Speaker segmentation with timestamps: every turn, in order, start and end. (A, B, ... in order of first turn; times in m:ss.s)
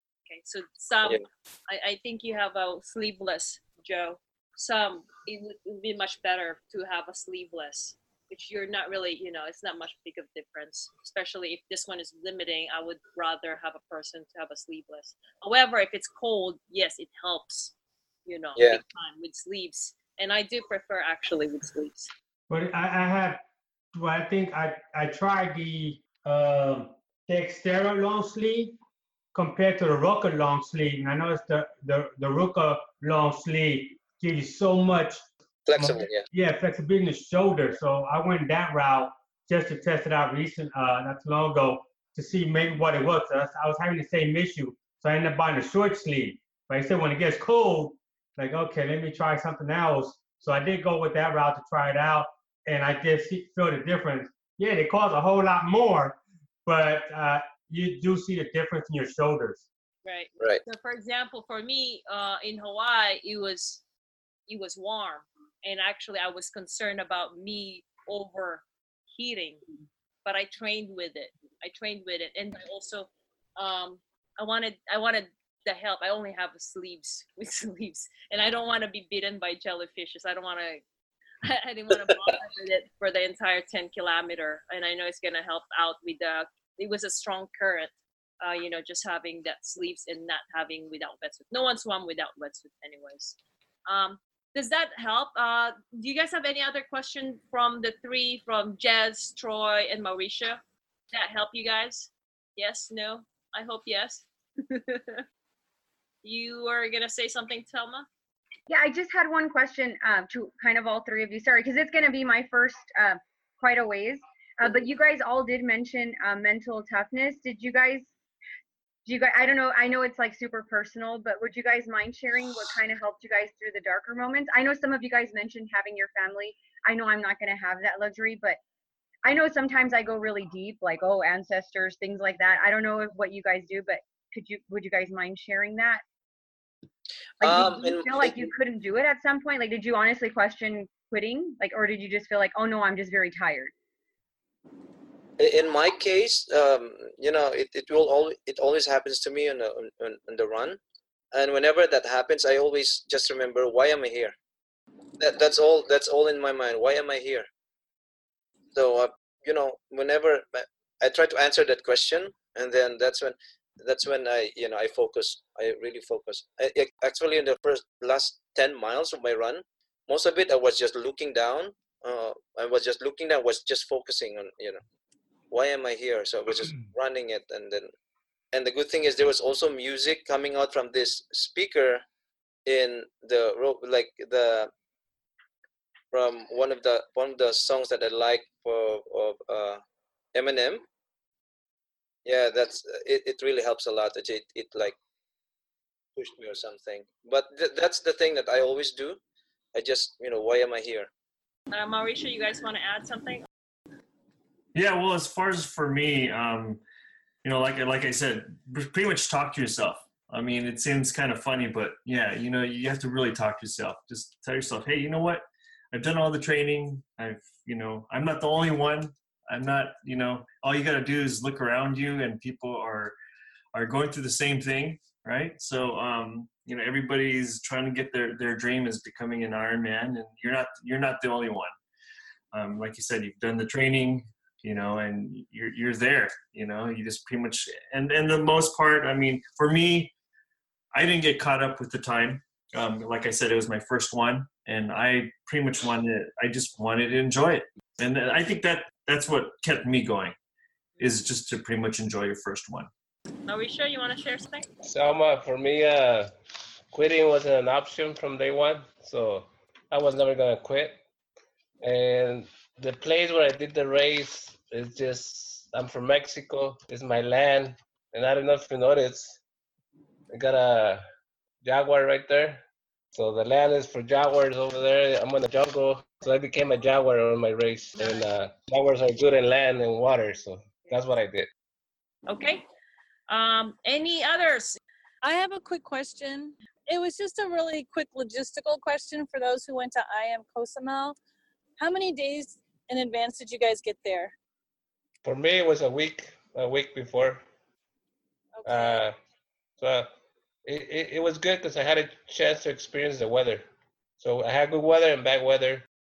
0:00.3-0:17.7 A
0:18.3-0:22.1 A
0:22.5-0:23.4 B
0:23.9-0:28.8 B
0:29.3-0:35.2 B
0:35.7-0:36.3 C
0:35.8-0:59.7 B
1:00.0-1:03.8 A
1:04.5-1:09.6 A
1:10.2-1:20.8 A
1:21.4-1:40.6 A
1:41.1-1:45.2 A
1:46.2-1:48.1 A
1:48.7-1:58.1 D
1:59.1-2:08.6 D
2:09.2-2:16.0 D
2:17.4-2:18.5 C
2:17.4-2:23.7 D
2:25.4-2:30.8 C
2:31.3-2:34.4 C
2:35.2-2:37.5 C
2:38.8-2:54.8 C
2:55.5-2:57.9 C
2:58.5-3:02.0 C
3:02.7-3:04.7 C
3:06.1-3:09.8 C
3:10.4-3:10.8 C
3:12.2-3:15.0 C
3:16.2-3:19.2 C
3:19.7-3:21.1 C
3:21.7-3:23.4 A
3:24.7-3:26.8 E
3:27.4-3:43.2 E
3:43.7-3:51.7 E
3:52.5-4:00.1 E
4:00.9-4:10.4 E
4:11.0-4:12.9 E
4:13.5-4:14.7 A
4:14.8-4:16.3 F
4:16.9-4:21.0 F
4:21.8-4:29.4 F
4:30.3-4:31.0 F
4:31.6-4:32.6 F
4:33.1-4:41.5 F
4:42.3-4:42.7 A
4:43.3-4:44.8 A
4:45.2-4:51.2 G
4:51.8-4:54.3 G
4:55.2-4:57.4 F
4:58.6-4:59.1 G
4:58.7-4:59.2 F
4:59.8-5:00.1 F
5:00.6-5:03.6 F
5:04.2-5:05.9 F